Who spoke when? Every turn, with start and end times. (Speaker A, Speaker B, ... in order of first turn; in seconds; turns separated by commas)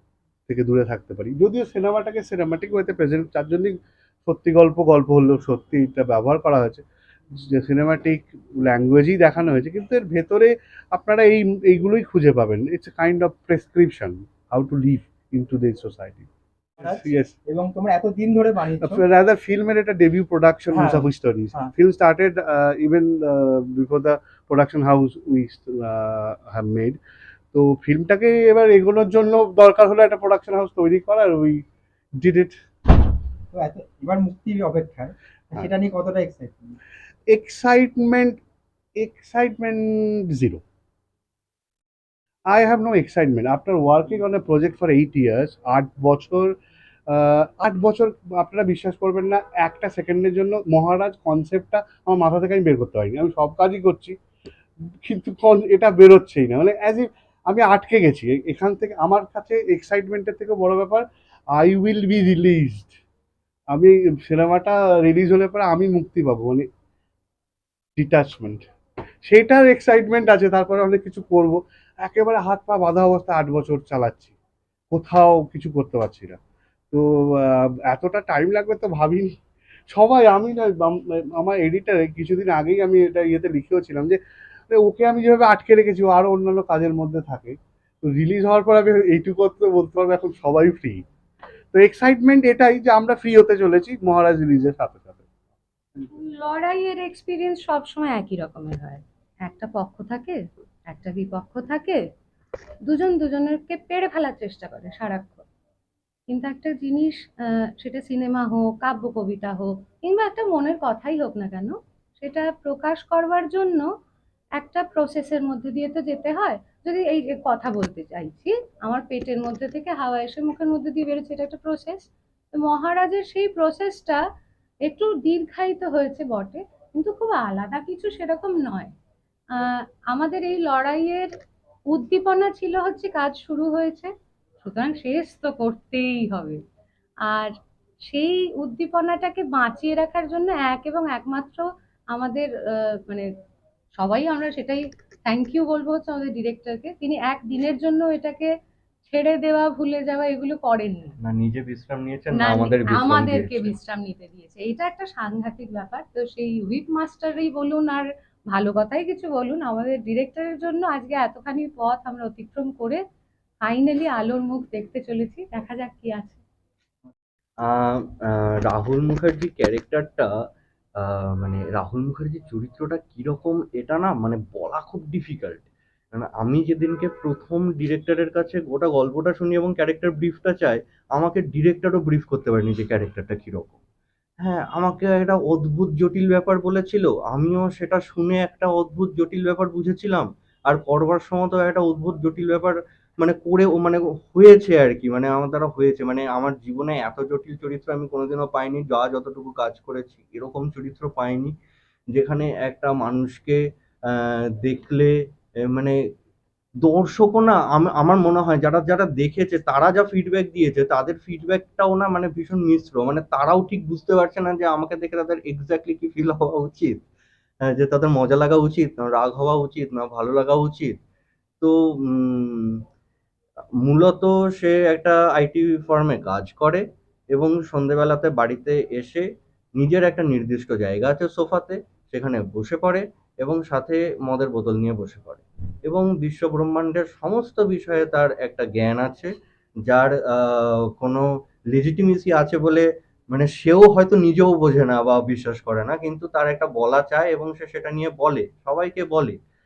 Speaker A: 0.5-16.3, Speaker B: 16.8-19.0, Speaker A: 16.8-17.4, Speaker A: 18.8-27.0, Speaker B: 20.7-21.7, Speaker A: 27.5-31.6, Speaker A: 32.2-32.6, Speaker B: 33.5-36.8, Speaker A: 37.3-38.4, Speaker A: 39.0-40.6, Speaker A: 42.5-46.5, Speaker A: 47.1-54.2, Speaker A: 55.0-61.0, Speaker A: 61.5-63.0, Speaker A: 63.7-66.7, Speaker A: 68.0-68.6, Speaker A: 69.2-74.3, Speaker A: 74.9-76.4, Speaker A: 76.9-79.4, Speaker A: 79.9-84.2, Speaker A: 84.7-91.0, Speaker A: 91.7-95.2, Speaker C: 96.0-102.0, Speaker C: 102.9-105.5, Speaker C: 106.3-113.9, Speaker C: 114.6-124.2, Speaker C: 124.8-128.9, Speaker C: 129.6-131.3, Speaker C: 131.9-136.6, Speaker C: 137.3-137.6, Speaker C: 138.1-143.3, Speaker C: 144.0-148.5, Speaker C: 149.1-151.2, Speaker D: 151.2-153.8, Speaker C: 152.3-163.0, Speaker C: 163.6-166.4, Speaker D: 167.6-170.3, Speaker D: 171.0-183.8, Speaker D: 184.4-201.6, Speaker D: 202.1-205.1, Speaker D: 205.6-206.0, Speaker D: 206.8-217.0, Speaker D: 217.7-220.9, Speaker D: 221.6-222.8, Speaker D: 223.8-229.3, Speaker D: 229.8-239.3, Speaker D: 239.9-249.4